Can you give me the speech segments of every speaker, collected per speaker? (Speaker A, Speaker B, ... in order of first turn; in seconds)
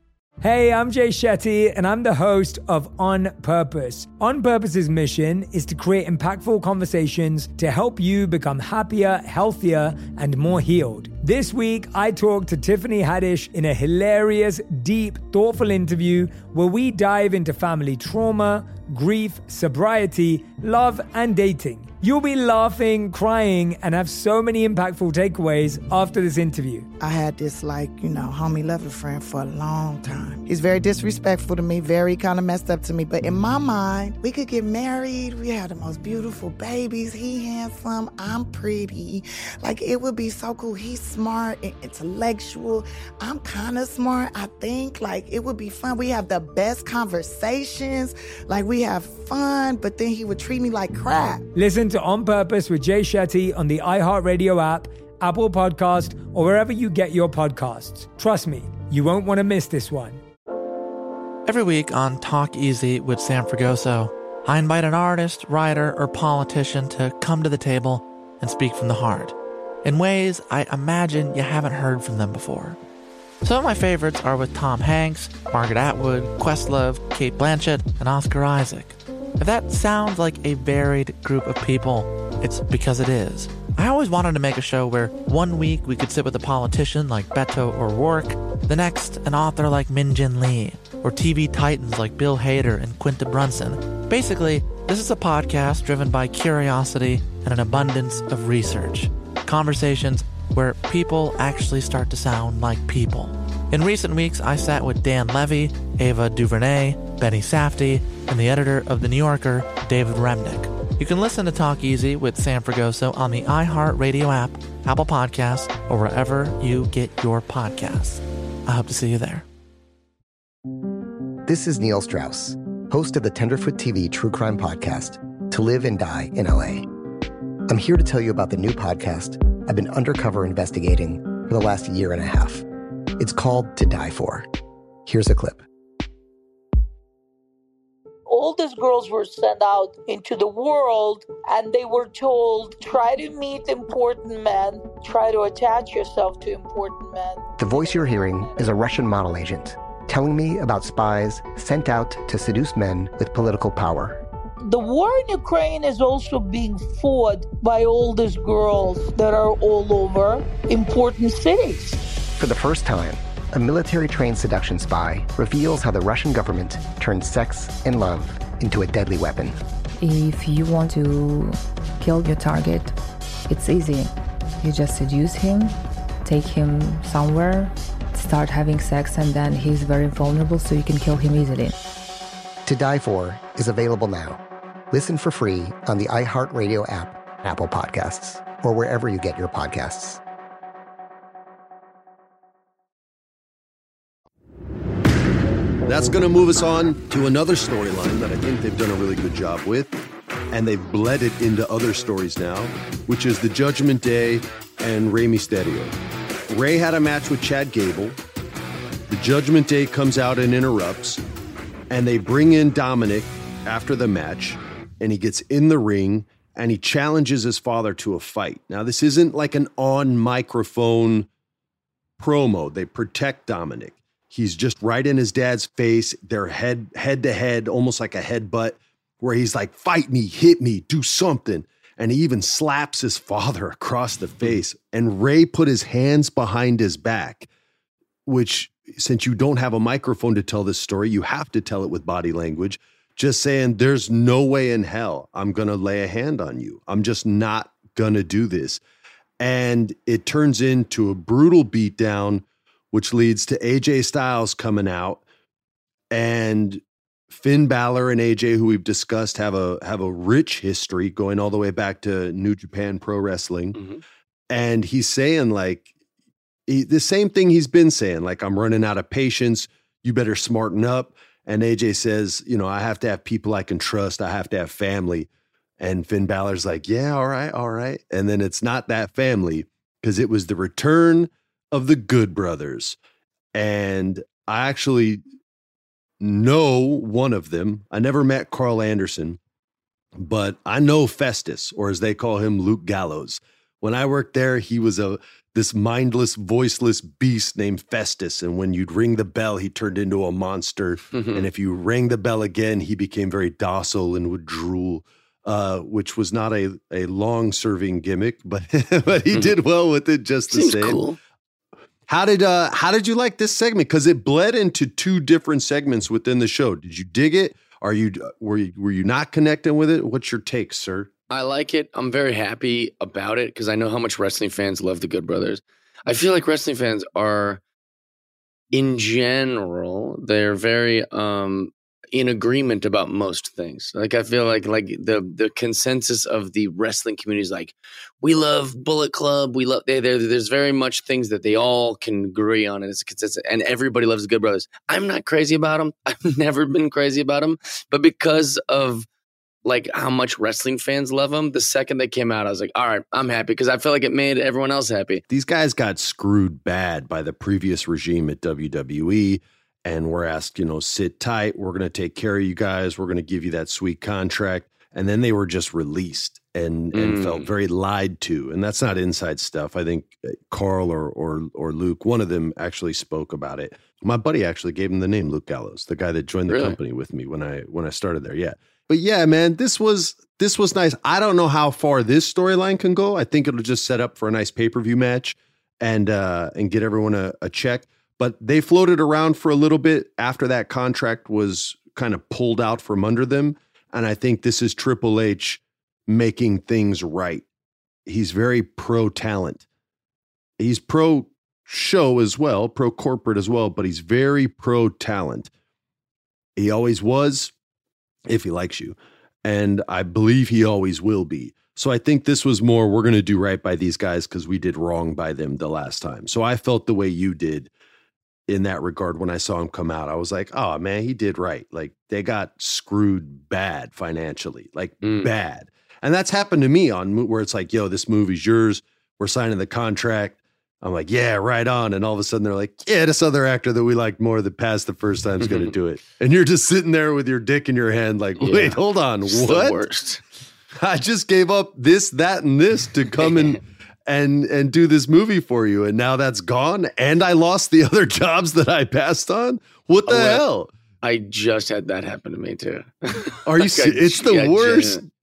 Speaker A: 0.4-26.9, 51.5-60.2
Speaker B: 27.0-51.4
Speaker C: 61.4-72.8, 73.4-119.4
Speaker D: 121.5-126.8, 127.7-132.6, 133.2-134.5, 135.1-135.6, 147.6-154.2, 162.4-169.6, 182.7-190.2
Speaker E: 138.3-147.4, 154.6-162.0
Speaker F: 170.0-172.9, 173.5-181.7
Speaker G: 195.8-199.9, 200.5-205.9, 206.5-208.2, 209.1-211.2, 211.9-221.3, 222.2-237.5, 238.2-248.8, 249.4-255.2, 256.1-263.8, 264.5-265.9, 266.7-275.3, 275.8-283.0, 283.5-285.2, 286.2-289.4, 290.2-311.0, 312.1-321.1, 355.3-397.4, 398.1-399.6, 400.6-405.5, 406.6-407.5, 408.3-417.7, 418.5-439.8, 440.8-450.7, 453.4-455.1
Speaker H: 263.7-264.0, 301.1-301.4, 310.5-311.2, 321.3-327.6, 328.7-349.1, 349.6-355.2, 366.9-367.5, 376.5-376.8, 425.0-425.3, 435.4-435.7, 438.4-440.2, 443.2-443.6, 450.1-450.4, 451.0-455.0